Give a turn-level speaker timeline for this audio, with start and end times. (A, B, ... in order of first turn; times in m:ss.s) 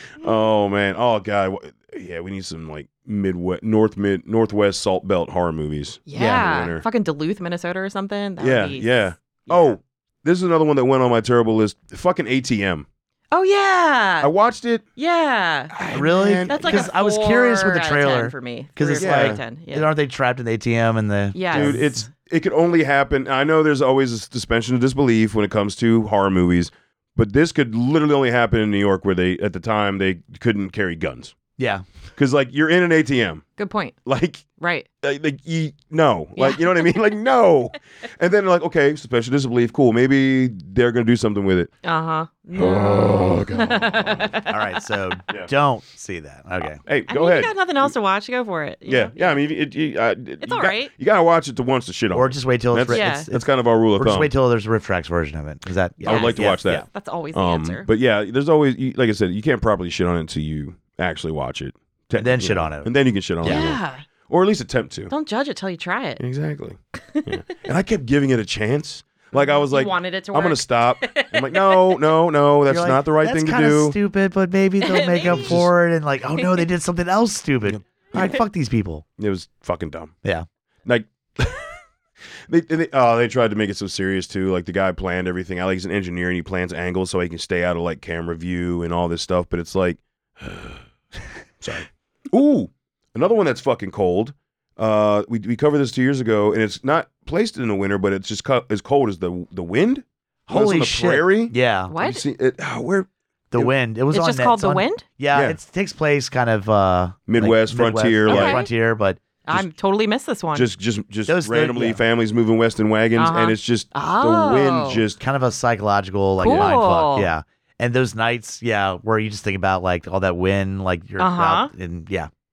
0:00.2-0:06.8 A
0:06.1-0:09.8 B
0:06.1-0:06.4 C
0:08.4-0:12.9 A
0:13.3-0:14.3 B
0:14.2-0:14.8 A
0:15.0-0:15.8 B
0:15.7-0:16.9 A
0:15.9-0:22.0 C
0:16.5-0:19.9 B
0:19.0-0:19.4 A
0:21.3-0:21.8 B
0:21.5-0:31.4 A
0:31.6-0:31.8 C
0:32.2-0:33.5 A
0:33.6-0:34.0 B
0:34.0-0:34.4 A
0:34.6-0:34.9 B
0:35.0-0:41.7 A
0:36.4-0:36.9 B
0:41.8-0:44.5 B
0:42.6-0:44.4 A
0:44.5-0:46.8 C
0:46.8-0:47.9 A
0:47.1-0:49.4 B
0:48.9-0:54.3 A
0:50.4-0:50.9 B
0:52.1-0:56.8 C
0:52.9-0:53.3 B
0:56.0-1:05.1 A
0:56.0-0:57.9 B
1:02.2-1:03.8 C
1:03.4-1:04.0 B
1:05.1-1:06.2 B
1:06.2-1:14.0 A
1:07.0-1:07.3 B
1:09.4-1:11.9 B
1:12.7-1:19.0 C
1:14.8-1:15.5 B
1:15.2-1:15.7 A
1:17.7-1:18.0 A
1:19.2-1:20.1 A
1:20.9-1:21.8 A
1:22.5-1:30.8 A
1:31.6-1:43.7 A
1:40.5-1:41.9 C
1:41.9-1:42.2 B
1:43.5-1:49.2 C
1:44.1-1:45.0 B
1:47.3-1:48.6 A
1:48.3-1:48.7 B
1:49.5-1:50.7 B
1:50.5-1:55.2 A
1:51.3-1:52.0 C
1:53.2-1:55.0 B
1:55.2-2:02.3 C
1:56.4-1:57.3 B
1:56.5-1:56.7 A
2:01.2-2:01.7 B